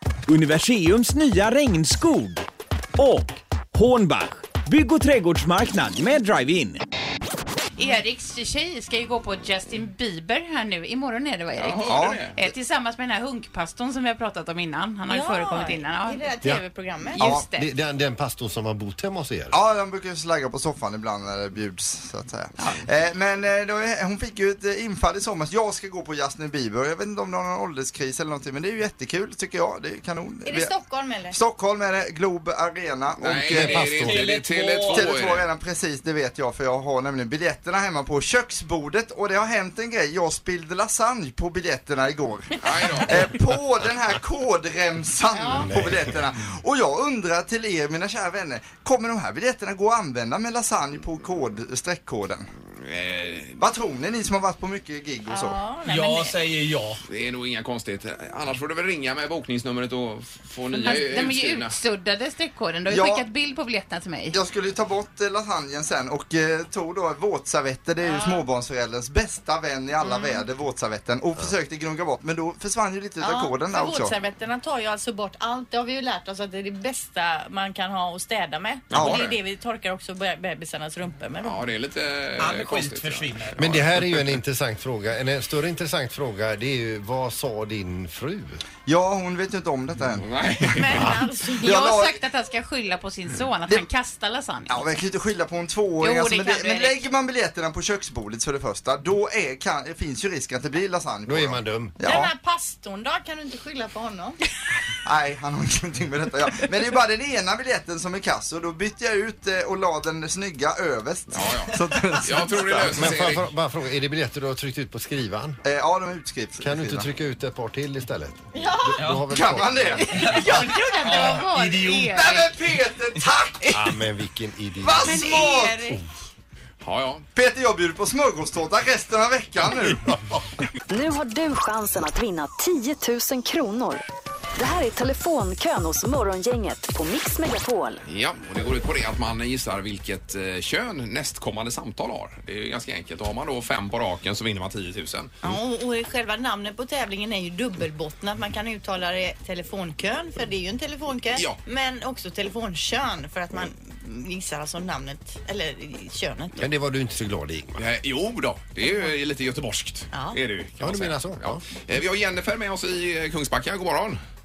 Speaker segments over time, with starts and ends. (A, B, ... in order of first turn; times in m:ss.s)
0:00.3-0:02.5 A
0:03.0-0:06.8 A
0:07.8-0:16.3 B
0:11.6-0:12.4 C
0:11.9-0:12.3 D
0:15.1-0:17.2 E
0:17.2-0:17.7 B
0:17.3-0:19.6 F
0:19.5-0:30.7 D
0:30.4-0:31.4 E
0:31.3-0:33.9 D
0:33.2-0:35.4 C
0:33.5-0:34.2 F
0:33.9-0:35.1 A
0:34.9-0:52.5 D
0:42.6-0:43.2 C
0:45.3-0:45.7 E
0:45.6-0:46.2 F
0:52.8-0:53.6 C
0:53.6-0:55.6 D
0:55.3-0:56.4 E
0:55.8-0:57.0 A
0:57.1-1:01.7 C
1:00.7-1:04.4 B
1:02.9-1:03.2 D
1:04.3-1:14.2 D
1:08.0-1:08.4 E
1:10.0-1:10.4 E
1:13.2-1:21.6 E
1:18.9-1:19.4 C
1:18.9-1:19.2 D
1:21.4-1:24.2 C
1:22.4-1:23.6 A
1:23.6-1:28.6 F
1:28.8-1:30.3 D
1:30.2-1:31.1 C
1:30.8-1:31.7 E
1:31.6-1:32.2 D
1:31.6-1:34.8 B
1:34.7-1:42.3 D
1:36.0-1:37.0 B
1:41.3-1:42.2 F
1:42.0-1:44.4 E
1:45.0-1:53.1 D
1:51.3-1:53.4 C
1:52.9-1:55.6 F
1:55.6-1:57.1 D
1:56.6-2:00.2 F
1:58.5-1:59.0 E
1:59.0-1:59.3 A
1:59.2-2:00.6 D
2:00.1-2:02.2 A
2:00.1-2:02.1 E
2:00.6-2:02.4 B
2:02.1-2:03.8 D
2:03.6-2:03.9 A
2:03.7-2:05.2 F
2:04.8-2:05.8 D
2:05.0-2:06.0 E
2:06.8-2:07.3 C
2:07.3-2:10.2 D
2:10.9-2:14.0 G
2:14.6-2:18.0 G
2:18.1-2:25.4 C
2:25.4-2:36.7 E
2:36.6-2:37.8 F
2:37.8-2:44.2 C
2:40.1-2:40.4 E
2:40.8-2:41.6 F